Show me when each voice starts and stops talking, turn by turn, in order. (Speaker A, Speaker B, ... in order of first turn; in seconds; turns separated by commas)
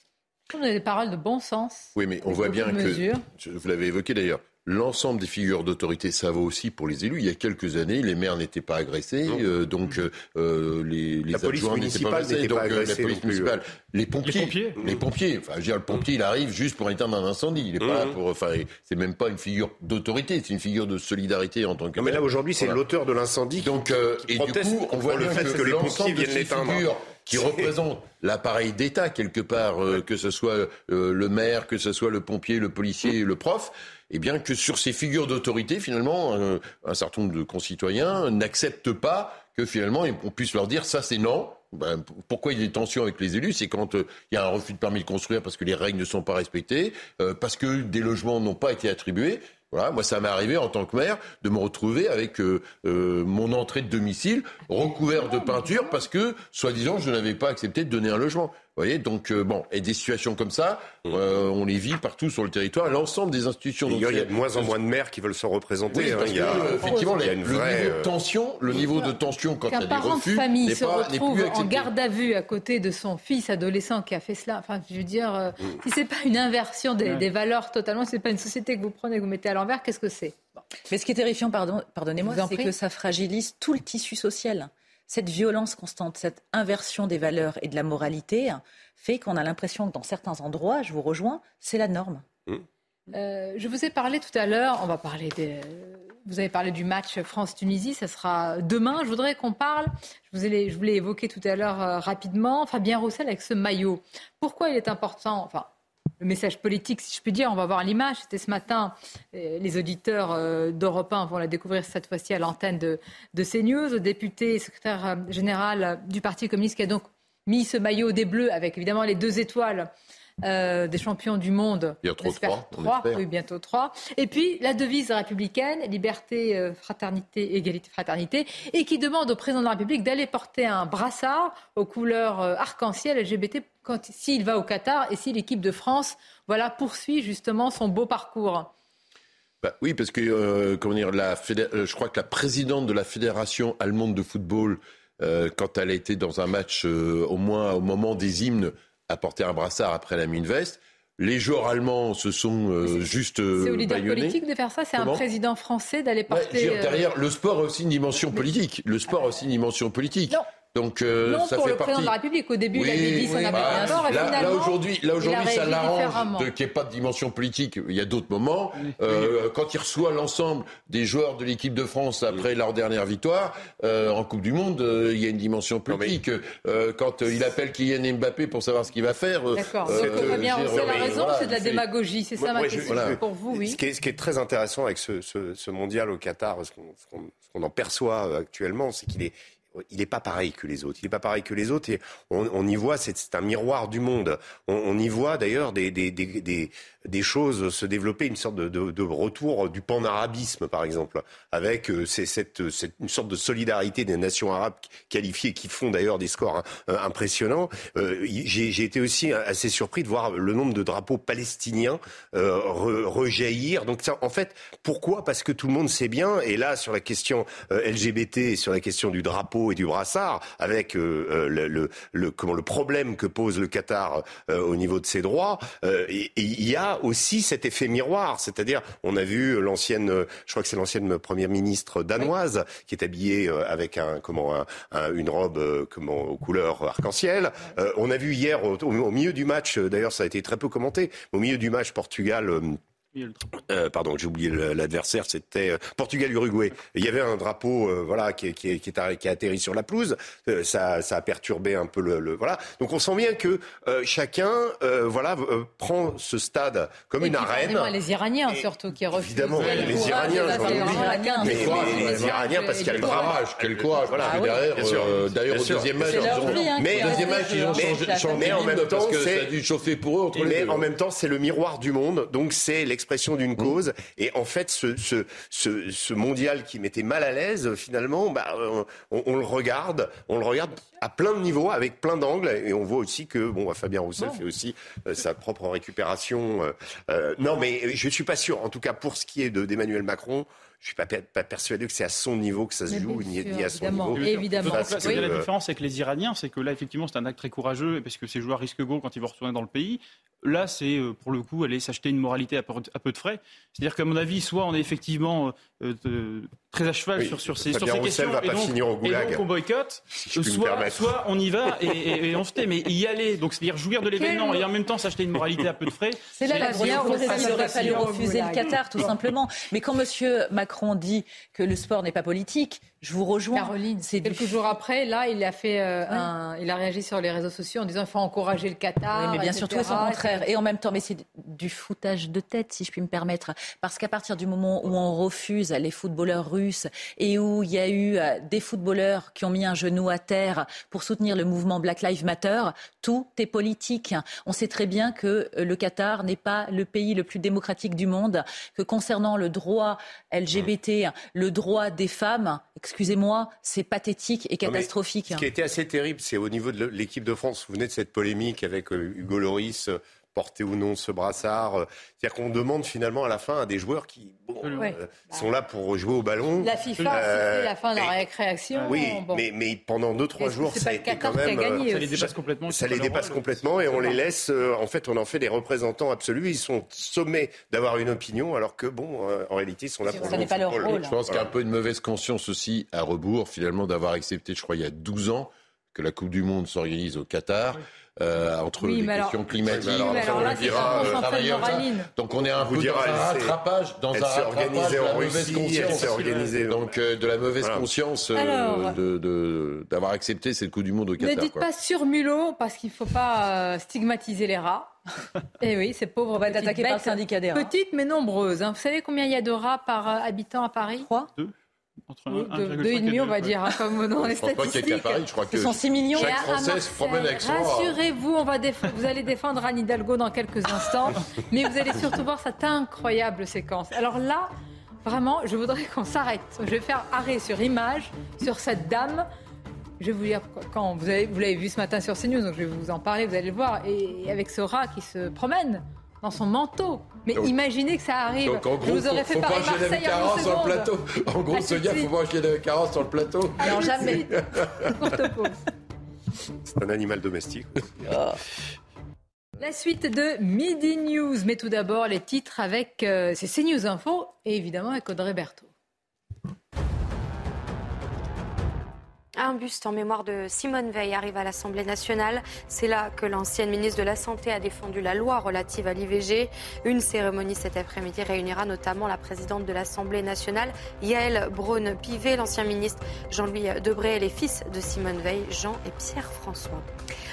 Speaker A: 0.5-3.2, Speaker B: 2.0-22.8, Speaker C: 11.3-13.5, Speaker D: 14.2-14.8, Speaker C: 17.8-18.2, Speaker C: 22.0-27.7, Speaker B: 23.6-64.8, Speaker A: 55.1-55.9, Speaker C: 63.9-68.1, Speaker B: 65.9-71.9, Speaker A: 69.7-80.7, Speaker E: 80.9-92.3, Speaker A: 82.2-82.7, Speaker A: 93.1-105.7, Speaker A: 106.2-119.9, Speaker A: 120.4-138.7, Speaker B: 122.0-123.2, Speaker B: 139.6-154.4, Speaker A: 152.8-157.0, Speaker B: 155.0-155.2, Speaker B: 156.3-162.2, Speaker A: 161.3-166.5, Speaker B: 162.7-181.8, Speaker E: 163.2-164.5, Speaker D: 168.8-169.2, Speaker C: 175.9-176.2, Speaker A: 179.6-183.8, Speaker C: 179.9-181.1, Speaker C: 182.4-242.8, Speaker B: 182.9-183.2, Speaker D: 243.1-243.5, Speaker C: 243.7-257.9, Speaker A: 257.2-263.4, Speaker C: 258.5-269.5, Speaker E: 259.8-262.0, Speaker B: 261.4-270.9, Speaker E: 264.1-264.6, Speaker E: 266.0-268.7, Speaker C: 270.3-295.5, Speaker A: 292.9-295.3, Speaker D: 294.2-318.1, Speaker C: 307.2-309.5, Speaker C: 310.1-312.0, Speaker A: 314.2-314.7, Speaker E: 316.4-324.6, Speaker A: 316.6-318.7, Speaker A: 323.6-330.5, Speaker E: 329.1-355.5, Speaker C: 354.6-368.2, Speaker D: 364.6-364.9, Speaker A: 364.8-365.4, Speaker A: 366.6-369.4, Speaker C: 368.9-381.5, Speaker A: 370.4-372.1, Speaker D: 371.8-374.2, Speaker E: 380.1-381.2, Speaker B: 380.8-401.7, Speaker A: 388.8-392.1, Speaker C: 389.7-391.2, Speaker C: 392.6-393.6, Speaker C: 394.1-396.8, Speaker D: 396.1-396.5, Speaker C: 397.6-397.9, Speaker A: 398.4-399.0, Speaker A: 401.2-404.9, Speaker A: 405.6-411.1, Speaker E: 406.4-407.7, Speaker E: 411.0-411.3, Speaker D: 412.1-413.6, Speaker A: 412.3-415.2, Speaker B: 414.2-418.0, Speaker E: 415.5-416.5, Speaker A: 416.1-424.5, Speaker A: 425.0-429.3, Speaker A: 430.0-440.9, Speaker B: 438.4-443.8, Speaker A: 441.5-442.1, Speaker E: 443.6-444.3, Speaker A: 443.6-444.4, Speaker A: 444.9-445.6, Speaker C: 446.8-447.8, Speaker A: 449.6-455.7, Speaker F: 459.4-476.9